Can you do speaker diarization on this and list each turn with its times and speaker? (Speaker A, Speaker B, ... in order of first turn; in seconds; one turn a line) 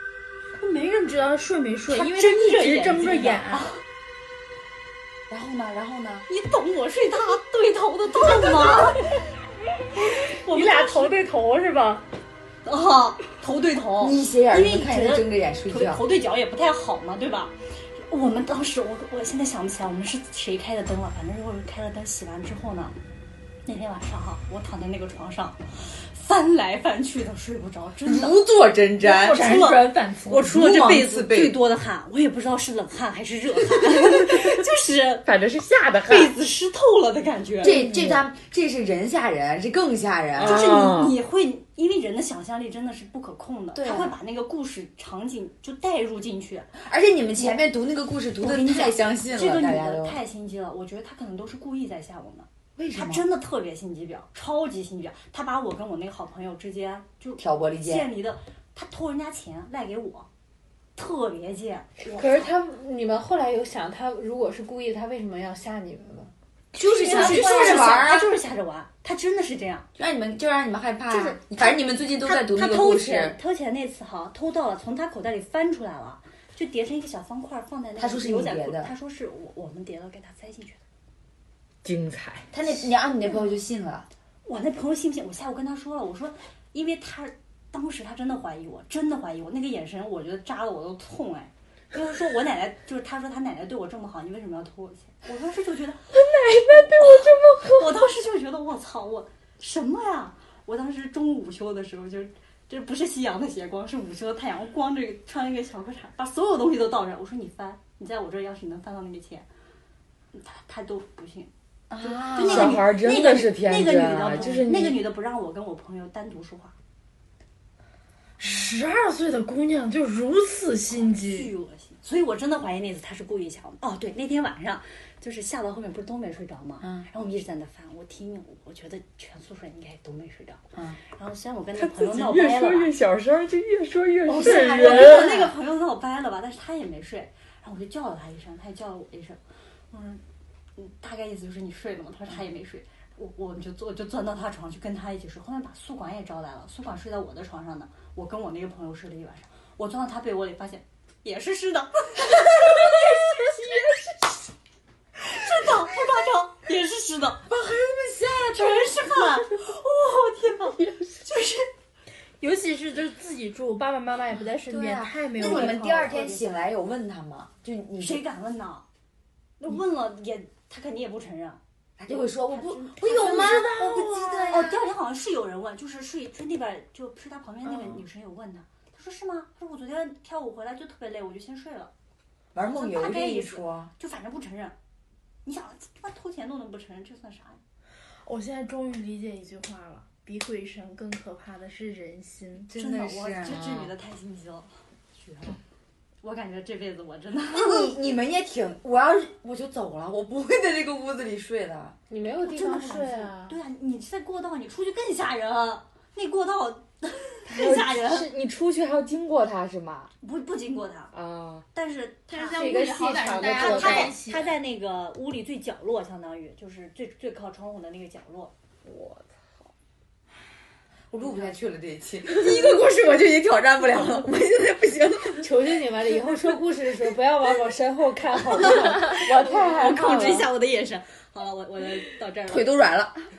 Speaker A: 0.5-3.7
Speaker B: 1.9-3.8
Speaker C: 5.3-6.3
Speaker B: 6.3-9.2
Speaker B: 9.9-11.2
Speaker A: 10.3-12.0
Speaker B: 12.7-23.0
Speaker C: 14.0-16.0
Speaker B: 23.7-28.4
Speaker C: 28.0-31.6
Speaker A: 29.0-30.5
Speaker B: 29.3-35.3
Speaker D: 35.3-36.4
Speaker B: 36.0-37.9
Speaker C: 37.6-40.7
Speaker D: 37.7-38.2
Speaker D: 40.4-41.2
Speaker B: 40.4-46.8
Speaker C: 43.8-44.2
Speaker C: 46.8-50.2
Speaker B: 48.4-60.3
Speaker C: 52.8-53.3
Speaker C: 57.4-58.1
Speaker B: 61.0-62.5
Speaker E: 62.1-66.3
Speaker C: 66.7-68.3
Speaker B: 66.8-69.9
Speaker A: 67.2-67.7
Speaker C: 70.0-73.4
Speaker B: 71.1-80.8
Speaker C: 78.0-78.9
Speaker D: 81.8-82.5
Speaker C: 82.5-84.1
Speaker B: 84.5-96.1
Speaker D: 96.1-97.9
Speaker B: 96.7-109.5
Speaker B: 110.3-116.8
Speaker C: 111.9-113.0
Speaker D: 112.4-115.0
Speaker A: 118.4-121.5
Speaker B: 120.9-132.9
Speaker C: 126.8-127.1
Speaker D: 131.8-135.4
Speaker B: 134.3-139.4
Speaker C: 134.3-135.5
Speaker B: 139.9-140.2
Speaker B: 140.8-153.9
Speaker B: 155.2-157.5
Speaker C: 157.5-159.0
Speaker B: 158.5-161.7
Speaker A: 162.4-166.4
Speaker C: 164.6-168.2
Speaker B: 165.4-166.1
Speaker B: 168.0-168.8
Speaker B: 169.6-171.6
Speaker C: 172.0-174.8
Speaker B: 172.4-181.9
Speaker A: 173.1-174.4
Speaker C: 182.5-183.9
Speaker B: 182.7-184.8
Speaker B: 185.4-187.6
Speaker A: 188.3-192.7
Speaker C: 192.7-193.8
Speaker B: 192.7-195.6
Speaker B: 196.2-197.9
Speaker C: 197.5-202.0
Speaker E: 202.1-203.6
Speaker B: 202.4-208.3
Speaker D: 207.5-210.1
Speaker B: 210.2-211.1
Speaker D: 211.1-211.7
Speaker B: 211.7-212.8
Speaker A: 212.3-214.5
Speaker E: 212.5-214.2
Speaker B: 213.3-218.5
Speaker D: 218.8-219.7
Speaker C: 221.1-225.5
Speaker E: 225.4-230.5
Speaker B: 228.9-232.7
Speaker C: 232.5-233.2